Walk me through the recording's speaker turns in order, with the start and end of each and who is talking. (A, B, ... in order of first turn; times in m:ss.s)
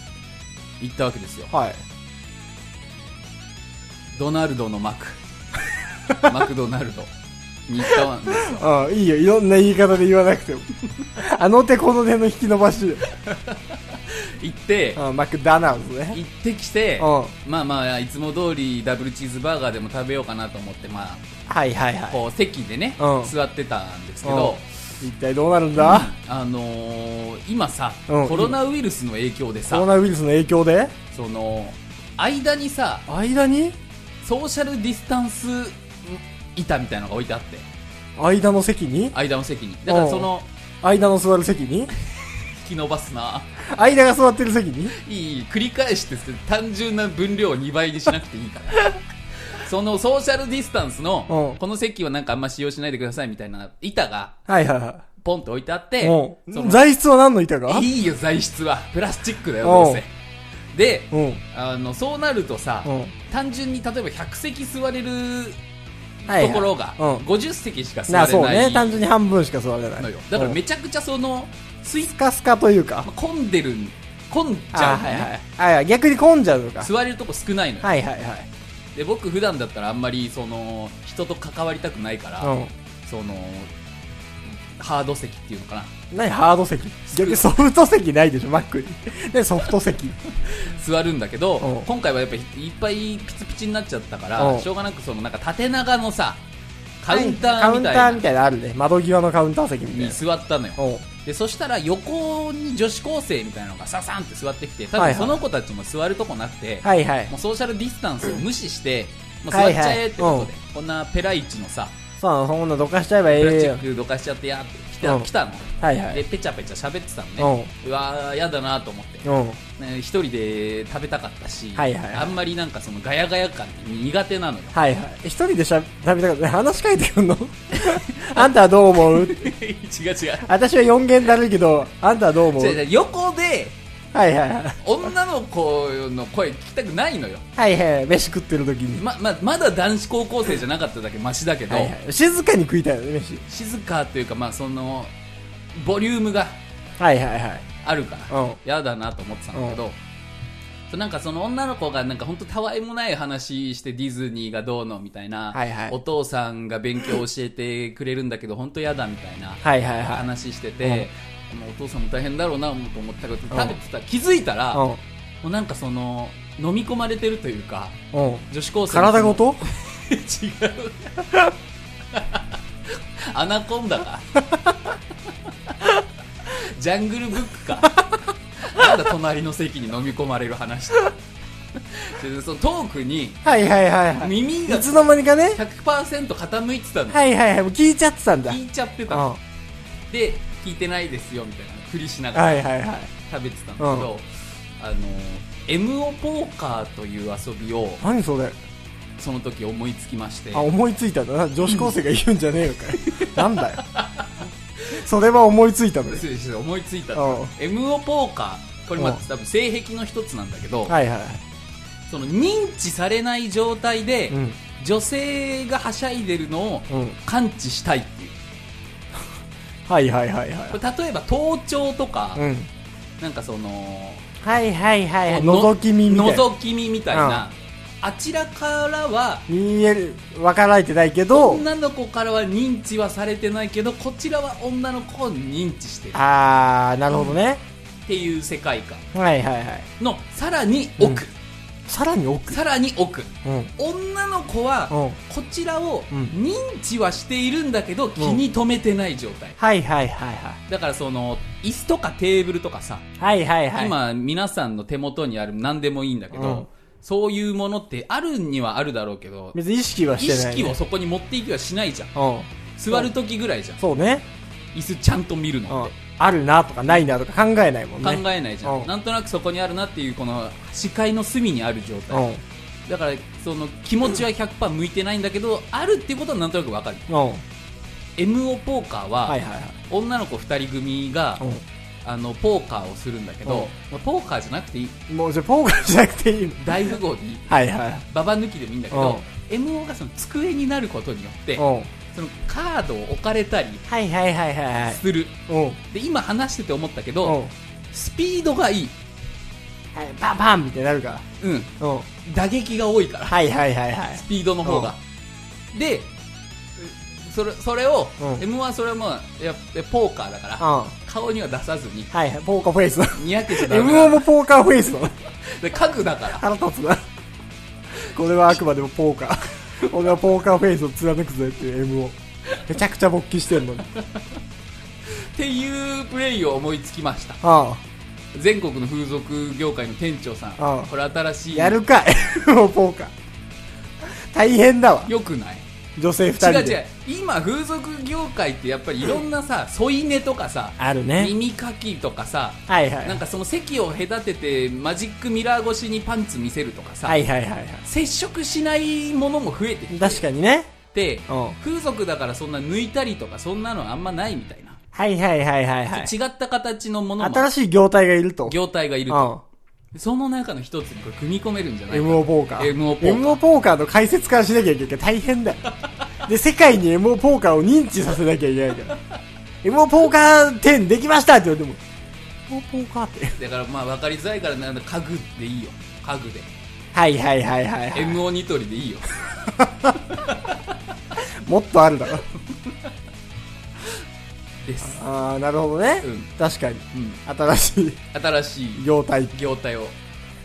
0:00.8-0:01.5 A
0:01.5-0:01.8 B
0:04.1-0:05.2 A
0:06.1-0:07.1 A
0:07.7-0:08.6 A
0:07.9-0:13.1 B
0:13.2-0:15.0 A
0:15.0-0:16.2 B
0:16.1-0:21.2 A
0:17.0-0:17.3 B
0:21.5-0:22.2 B
0:22.1-0:24.7 A
0:23.0-0:23.3 B
0:24.2-0:26.1 B
0:25.8-0:29.9 A
0:28.1-0:28.5 B
0:29.7-0:30.9 B
0:31.1-0:33.0 A
0:33.1-0:33.8 B
0:34.2-0:37.7 A
0:38.2-0:39.1 B
0:39.1-0:40.4 A
0:39.9-0:40.3 B
0:40.8-0:41.9 B
0:42.6-0:43.5 A
0:43.6-0:44.9 B
0:44.9-0:49.0 A
0:49.5-0:54.4 A
0:51.3-0:51.6 B
0:54.5-0:55.0 B
0:55.2-0:56.8 A
0:56.0-0:57.8 B
0:57.7-1:00.1 A
0:59.6-1:00.0 B
1:00.7-1:05.6 A
1:01.1-1:01.4 B
1:02.8-1:03.1 B
1:06.2-1:09.0 A
1:06.3-1:07.2 B
1:08.1-1:10.6 B
1:10.0-1:12.1 A
1:12.1-1:13.1 B
1:13.0-1:15.3 A
1:14.7-1:16.9 B
1:16.8-1:17.9 A
1:17.8-1:18.5 B
1:18.9-1:22.5 A
1:22.4-1:22.7 B
1:23.0-1:23.7 A
1:24.8-1:25.9 A
1:26.1-1:30.2 B
1:27.1-1:27.4 A
1:30.4-1:36.4 A
1:31.6-1:31.9 B
1:34.4-1:34.6 B
1:37.0-1:38.2 A
1:37.1-1:40.2 B
1:39.9-1:52.0 A
1:40.8-1:41.0 B
1:45.0-1:45.4 B
1:46.8-1:47.3 B
1:49.5-1:50.5 B
1:52.2-1:53.8 B
1:53.3-1:59.3 A
1:55.0-1:55.3 B
1:55.8-1:56.2 B
1:57.4-1:57.7 B
1:59.2-1:59.6 B
1:59.8-2:04.8 A
2:01.8-2:02.3 B
2:04.7-2:09.5 B
2:07.7-2:10.5 A
2:10.4-2:12.8 B
2:12.5-2:13.8 A
2:14.1-2:14.8 B
2:14.8-2:17.4 A
2:17.6-2:19.0 B
2:19.0-2:21.9 A
2:21.7-2:23.4 B
2:23.5-2:25.1 A
2:25.7-2:26.6 A
2:27.0-2:27.6 B
2:27.8-2:30.0 A
2:28.3-2:28.6 B
2:30.9-2:44.8 A
2:35.5-2:36.0 B
2:39.6-2:40.2 B
2:40.8-2:41.1 B
2:43.5-2:43.8 B
2:44.7-2:45.0 B
2:45.4-2:48.0 A
2:48.1-2:49.6 B
2:48.5-2:51.5 A
2:52.1-2:54.2 A
2:56.4-3:01.1 A
3:01.8-3:03.4 A
3:03.4-3:05.6 B
3:04.2-3:07.2 A
3:07.1-3:08.6 B
3:08.5-3:09.3 A
3:09.1-3:09.4 B
3:10.1-3:12.6 A
3:12.3-3:13.1 B
3:13.2-3:14.3 A
3:13.8-3:14.1 B
3:14.8-3:18.0 A
3:18.0-3:18.6 B
3:19.2-3:20.7 A
3:20.5-3:23.8 B
3:22.9-3:24.5 A
3:24.9-3:26.2 B
3:26.1-3:31.0 A
3:27.1-3:27.5 B
3:30.9-3:31.4 B
3:32.1-3:38.4 A
3:34.3-3:34.6 B
3:36.9-3:37.2 B
3:39.9-3:40.8 B
3:40.7-3:42.4 A
3:42.4-3:42.7 B
3:43.2-3:44.2 A
3:44.4-3:46.4 B
3:45.2-3:49.4 A
3:47.1-3:47.4 B
3:49.5-3:51.6 B
3:51.3-3:56.2 A
3:56.1-3:57.6 B
3:58.1-3:59.0 A
3:59.1-3:59.9 B
4:00.0-4:01.3 A
4:01.9-4:02.6 B
4:02.5-4:09.6 A
4:03.4-4:03.7 B
4:04.9-4:05.2 B
4:09.6-4:10.6 B
4:10.7-4:13.0 A
4:13.2-4:14.0 B
4:13.7-4:19.6 A
4:16.3-4:16.7 B
4:19.5-4:20.8 B
4:20.2-4:22.1 A
4:22.1-4:23.1 B
4:22.8-4:23.8 A
4:23.8-4:24.2 B
4:24.7-4:25.9 A
4:25.7-4:28.9 B
4:28.0-4:32.2 A
4:32.1-4:32.4 B
4:32.9-4:37.0 A
4:37.1-4:37.4 B
4:38.2-4:39.4 A
4:39.3-4:39.8 B
4:39.9-4:41.4 A
4:42.0-4:45.0 A
4:45.1-4:46.9 B
4:46.6-4:47.5 A
4:47.5-4:48.0 B
4:48.1-4:53.8 A
4:48.9-4:49.2 B
4:51.6-4:51.9 B
4:53.9-4:55.8 B
4:54.8-4:55.4 A
4:55.9-4:57.4 A
4:57.2-4:57.5 B
4:57.9-4:58.9 A
4:59.9-5:01.2 B
5:01.4-5:01.7 A
5:01.8-5:02.1 B
5:02.2-5:03.4 A
5:03.3-5:04.9 B
5:04.1-5:05.0 A
5:05.7-5:06.1 A
5:06.8-5:12.1 A
5:10.6-5:10.9 B
5:12.1-5:15.1 B
5:13.2-5:14.2 A
5:15.4-5:16.4 A
5:16.4-5:17.0 B
5:18.1-5:23.8 B
5:23.9-5:24.3 A
5:25.2-5:27.4 A
5:27.4-5:27.8 B
5:28.3-5:31.8 A
5:30.6-5:30.9 B
5:31.5-5:33.1 B
5:34.2-5:35.1 B
5:35.0-5:35.6 A
5:36.0-5:36.8 B
5:36.4-5:47.2 A
5:40.8-5:41.3 B
5:42.7-5:43.2 B
5:47.0-5:47.8 B
5:47.8-5:50.2 A
5:49.9-5:50.7 B
5:50.9-5:54.8 A
5:51.3-5:51.6 B
5:54.9-5:56.1 B
5:55.9-5:57.5 A
5:57.2-5:58.6 B
5:58.4-5:59.3 A
5:59.1-5:59.4 B
5:59.9-6:03.4 A
6:01.9-6:05.6 B
6:06.2-6:09.0 B
6:09.6-6:11.8 B
6:12.5-6:13.3 B
6:13.4-6:16.5 A
6:16.9-6:18.2 B
6:17.9-6:20.8 A
6:19.6-6:19.9 B
6:21.4-6:22.2 B
6:22.5-6:22.8 A
6:24.6-6:25.0 A
6:24.9-6:28.0 B
6:26.0-6:26.3 A
6:26.9-6:27.2 A
6:28.1-6:30.0 A
6:28.8-6:29.3 B